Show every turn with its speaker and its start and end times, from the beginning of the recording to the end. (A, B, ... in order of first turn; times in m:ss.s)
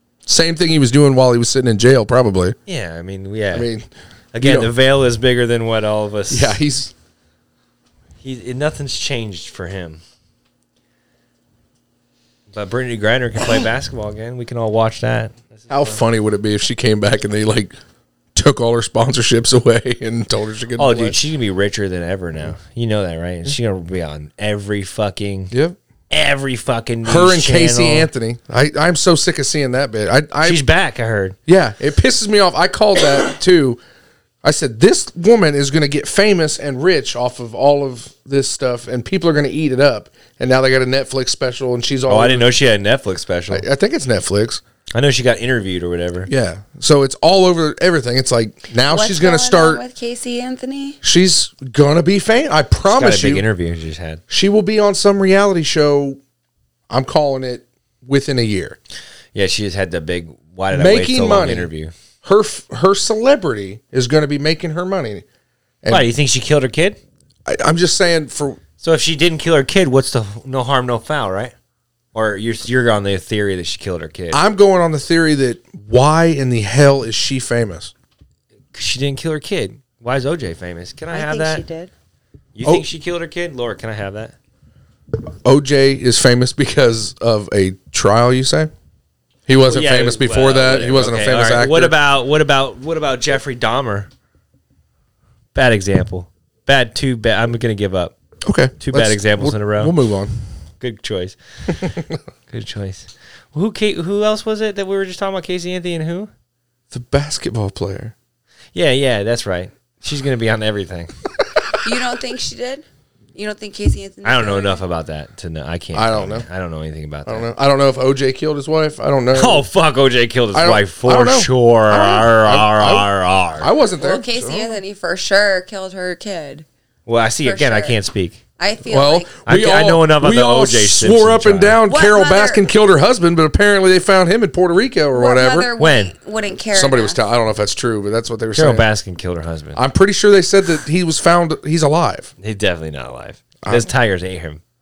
0:00.2-0:02.6 A
0:02.7-0:03.7 B
0:03.5-0:03.9 A
0:04.3-0:06.6 B
0:04.4-0:04.7 A
0:06.3-0:06.9 A
0:08.2-0:10.0 B
0:12.5-0:16.0 B
0:15.7-0:17.7 A
0:18.3-0:21.2 A
0:20.8-0:25.5 B
0:25.5-0:25.8 A
0:26.1-0:28.1 B
0:27.0-0:30.6 A
0:30.4-0:31.4 B
0:31.5-0:33.8 A
0:34.4-0:42.5 A
0:42.1-0:43.6 B
0:43.5-0:44.6 A
0:44.9-0:46.3 B
0:46.3-0:49.8 A
0:48.8-0:51.0 C
0:51.0-0:53.4 A
0:52.9-0:54.2 B
0:54.3-0:56.2 A
0:56.9-0:58.8 A
0:59.3-1:01.9 B
1:00.7-1:01.7 A
1:02.2-1:05.2 A
1:05.9-1:07.0 B
1:07.4-1:08.6 A
1:08.8-1:11.5 B
1:12.1-1:14.4 B
1:14.3-1:17.9 A
1:18.7-1:21.6 B
1:21.1-1:21.9 C
1:22.5-1:24.3 B
1:25.4-1:28.7 A
1:29.5-1:31.9 A
1:29.6-1:34.1 B
1:35.5-1:38.1 B
1:38.4-1:40.3 A
1:38.8-1:39.9 B
1:40.8-1:41.9 B
1:42.5-1:46.3 B
1:46.9-1:48.1 A
1:48.7-1:51.1 B
1:51.8-1:54.8 C
1:54.2-1:57.5 B
1:55.9-1:56.5 A
1:57.2-1:59.6 A
1:59.3-2:03.7 B
2:00.5-2:04.8 A
2:04.0-2:06.6 C
2:07.0-2:08.4 B
2:07.4-2:08.0 C
2:08.6-2:09.3 C
2:08.9-2:15.7 A
2:09.4-2:11.8 B
2:11.9-2:12.6 C
2:15.1-2:17.2 C
2:15.8-2:16.1 B
2:16.7-2:18.8 A
2:18.5-2:19.8 B
2:19.7-2:22.3 A
2:22.4-2:24.6 B
2:23.6-2:23.9 A